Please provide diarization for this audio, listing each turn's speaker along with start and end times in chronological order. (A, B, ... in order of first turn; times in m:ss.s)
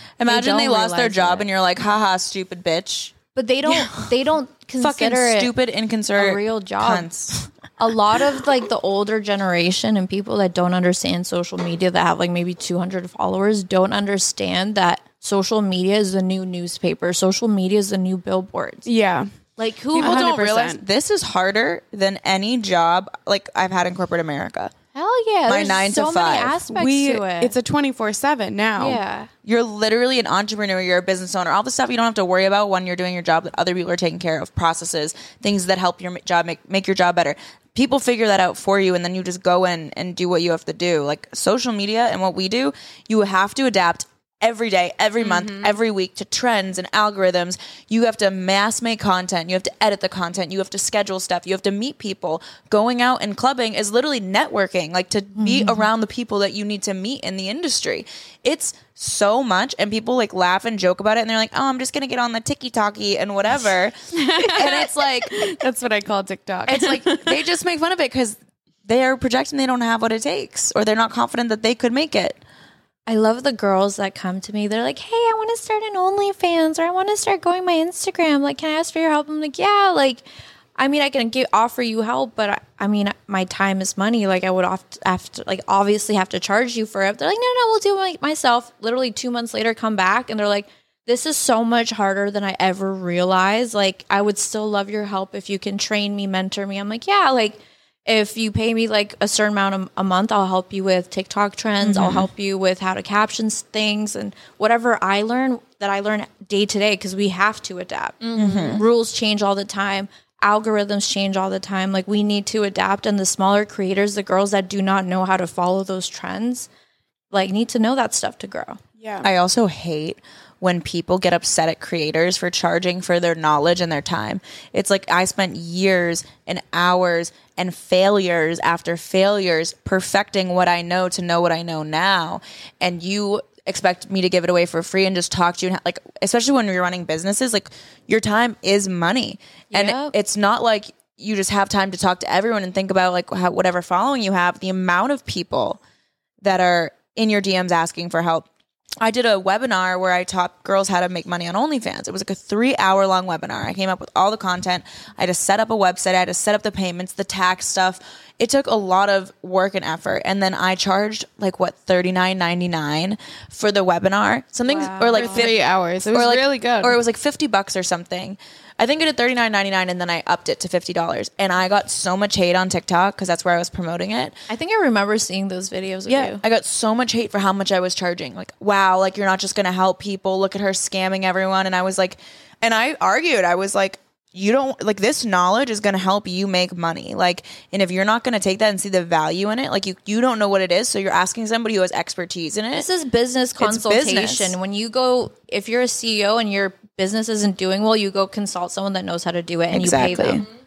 0:00.2-0:03.1 A
0:00.2-0:01.5 B
0:03.3-0:05.5 B
0:04.8-0:07.4 A
0:06.1-0:07.1 B
0:07.8-0:18.9 B
0:18.8-0:19.3 C
0:19.6-0:20.7 B
0:19.9-0:20.8 C
0:19.9-0:24.7 A
0:24.9-0:27.5 B
0:25.5-0:26.6 A
0:26.7-0:29.0 C
0:28.8-0:29.3 B
0:29.4-1:05.4 A
0:45.2-0:45.7 C
0:55.4-0:55.8 B
1:04.1-1:07.4 C
1:06.7-1:12.4 A
1:13.0-1:20.2 B
1:20.8-1:56.7 B
1:41.8-1:42.3 A
1:48.2-1:48.8 C
1:48.4-1:48.8 A
1:57.3-1:58.8 B
1:59.0-1:59.3 C
1:59.2-2:25.8 A
2:19.7-2:20.1 B
2:26.4-2:28.5 A
2:29.0-2:54.4 A
2:44.6-2:45.5 B
2:45.1-2:47.0 C
2:54.5-2:56.4 B
2:56.1-3:12.8 A
3:12.7-3:20.4 B
3:13.6-3:14.6 A
3:19.7-3:20.4 A